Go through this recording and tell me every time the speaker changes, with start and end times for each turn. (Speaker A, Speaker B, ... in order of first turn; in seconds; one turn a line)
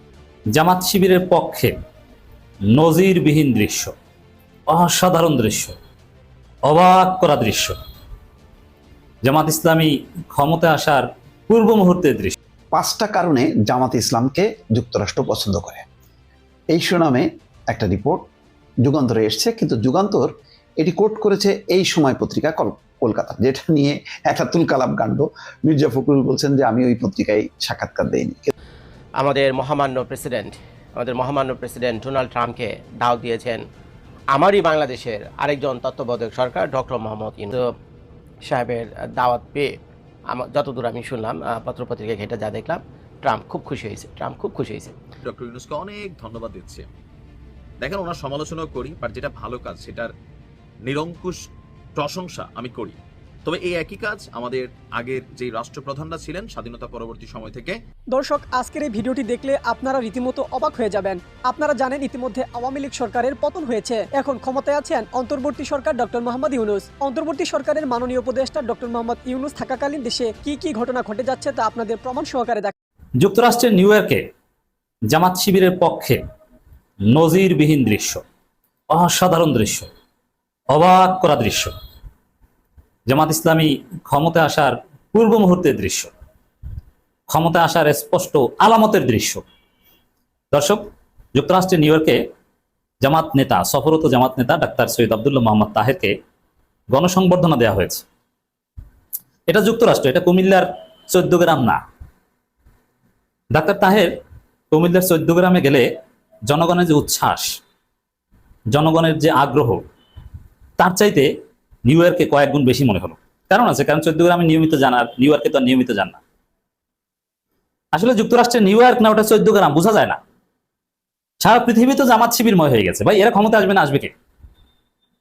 Speaker A: 0.5-1.8
Speaker A: 2.7-3.9
Speaker A: 4.7-5.8
Speaker A: 6.6-7.8
Speaker A: 9.2-12.4
Speaker B: 12.7-15.8
Speaker B: 16.7-18.2
Speaker B: 18.8-28.5
Speaker C: 29.2-33.6
Speaker C: 34.3-37.6
Speaker C: 38.4-39.7
Speaker C: 40.3-45.0
Speaker D: 45.2-46.9
Speaker D: 47.8-50.1
Speaker D: 50.8-57.8
Speaker E: 58.1-72.7
Speaker A: 73.2-74.2
Speaker A: 75.1-76.2
Speaker A: 77.1-78.2
Speaker A: 78.9-79.9
Speaker A: 80.7-81.7
Speaker A: 83.1-86.1
Speaker A: 87.3-89.4
Speaker A: 90.5-92.2
Speaker A: 93.0-96.1
Speaker A: 96.9-98.0
Speaker A: 99.5-101.8
Speaker A: 103.5-104.1
Speaker A: 104.7-105.9
Speaker A: 106.5-107.6
Speaker A: 108.7-109.8
Speaker A: 110.8-111.3
Speaker A: 111.8-116.2
Speaker A: 117.9-120.2
Speaker A: 121.4-124.1